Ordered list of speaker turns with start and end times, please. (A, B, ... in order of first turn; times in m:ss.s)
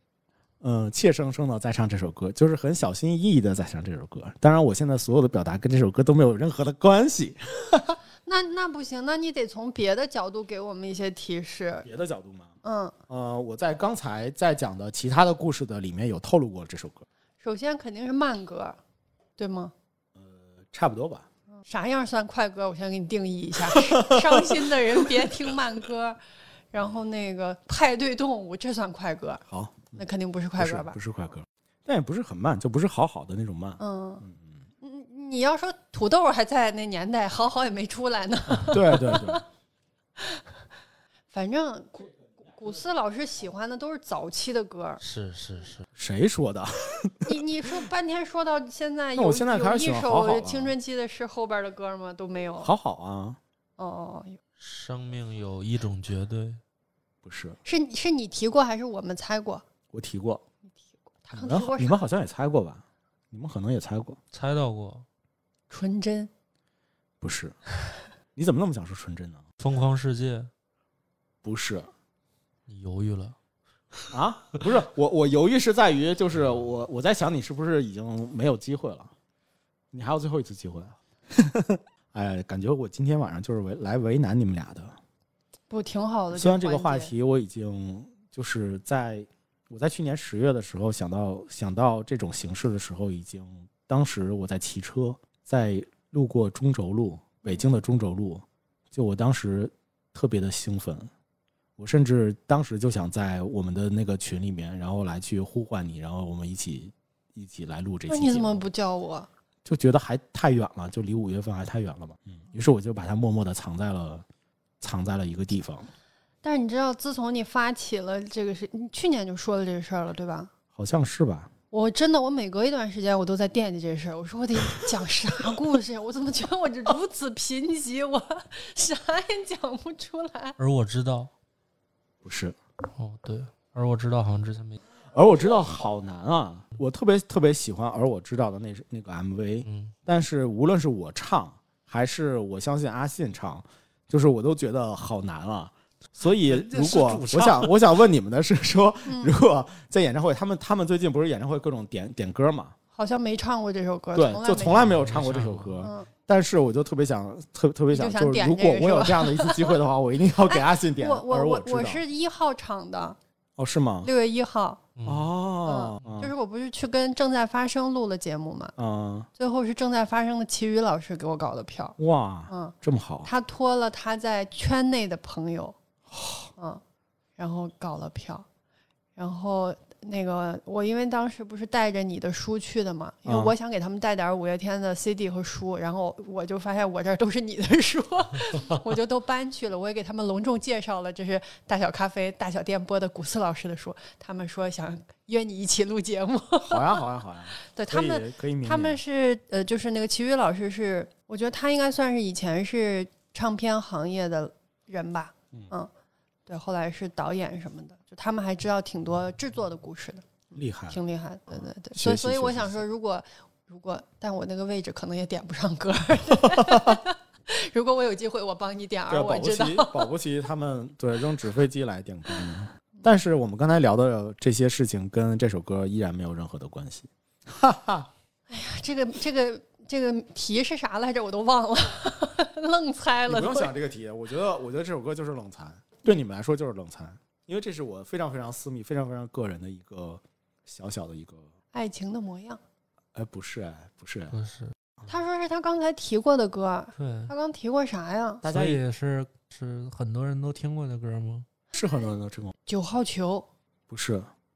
0:00.6-0:08.0 A
0:08.2-0:11.9 B
0:11.8-0:12.6 A
0:12.6-0:13.0 B
0:13.1-0:17.1 A
0:17.4-0:18.8 B
0:19.4-0:19.7 B
0:20.2-0:21.3 A
0:21.6-0:26.2 B
0:23.7-0:25.3 A
0:26.7-0:29.4 B
0:29.5-0:30.0 A
0:29.9-0:31.0 B
0:30.6-0:34.6 A
0:33.8-0:34.2 B
0:34.8-0:39.4 B
0:38.7-0:39.4 A
0:41.3-0:45.0 B
0:45.0-0:45.9 C
0:46.0-0:47.3 A
0:47.2-0:52.7 B
0:49.2-0:50.7 A
0:52.6-0:53.4 A
0:53.8-0:54.4 B
0:54.6-0:56.6 C
0:57.2-0:57.6 A
0:57.6-0:59.6 B
0:59.9-1:00.4 A
1:01.1-1:02.0 B
1:01.3-1:04.2 A
1:04.3-1:05.1 C
1:05.7-1:06.3 B
1:07.2-1:07.6 A
1:08.4-1:09.4 A
1:09.6-1:10.5 C
1:11.4-1:11.9 A
1:12.7-1:13.4 C
1:14.1-1:19.1 A
1:19.9-1:25.0 A
1:25.7-1:27.1 B
1:26.3-1:41.1 A
1:41.8-1:48.6 A
1:48.1-1:49.3 B
1:49.6-1:54.2 A
1:54.8-1:55.9 A
1:56.4-2:00.5 B
2:00.7-2:01.5 A
2:01.7-2:10.6 B
2:10.6-2:11.3 C
2:12.2-2:12.6 A
2:13.0-2:14.8 C
2:15.1-2:32.8 A
2:19.6-2:20.0 C
2:26.2-2:27.7 C
2:29.1-2:29.4 B
2:33.0-2:35.0 B
2:34.2-2:42.0 A
2:34.9-2:35.9 C
2:35.8-2:36.1 B
2:37.9-2:39.8 B
2:40.5-2:43.2 B
2:43.6-2:44.1 A
2:44.0-2:44.8 B
2:45.0-2:45.3 C
2:45.0-2:46.3 A
2:45.6-2:48.8 B
2:48.8-2:49.3 A
2:49.4-2:52.0 B
2:52.0-2:53.3 A
2:52.5-2:55.8 B
2:56.1-2:56.5 A
2:56.6-2:56.8 B
2:57.4-2:58.5 B
2:59.2-3:17.0 B
3:03.3-3:03.5 A
3:16.6-3:19.0 A
3:17.6-3:25.9 B
3:26.5-3:40.1 B
3:30.5-3:31.0 A
3:31.9-3:32.8 A
3:36.5-3:37.0 A
3:39.1-3:48.1 A
3:48.5-3:53.7 B
3:53.3-4:01.5 A
4:01.7-4:02.6 B
4:03.2-4:04.4 A
4:04.3-4:04.8 C
4:05.1-4:08.4 B
4:07.0-4:07.3 C
4:08.4-4:08.8 A
4:08.5-4:11.5 C
4:11.8-4:12.5 A
4:12.7-4:13.5 B
4:13.9-4:14.3 A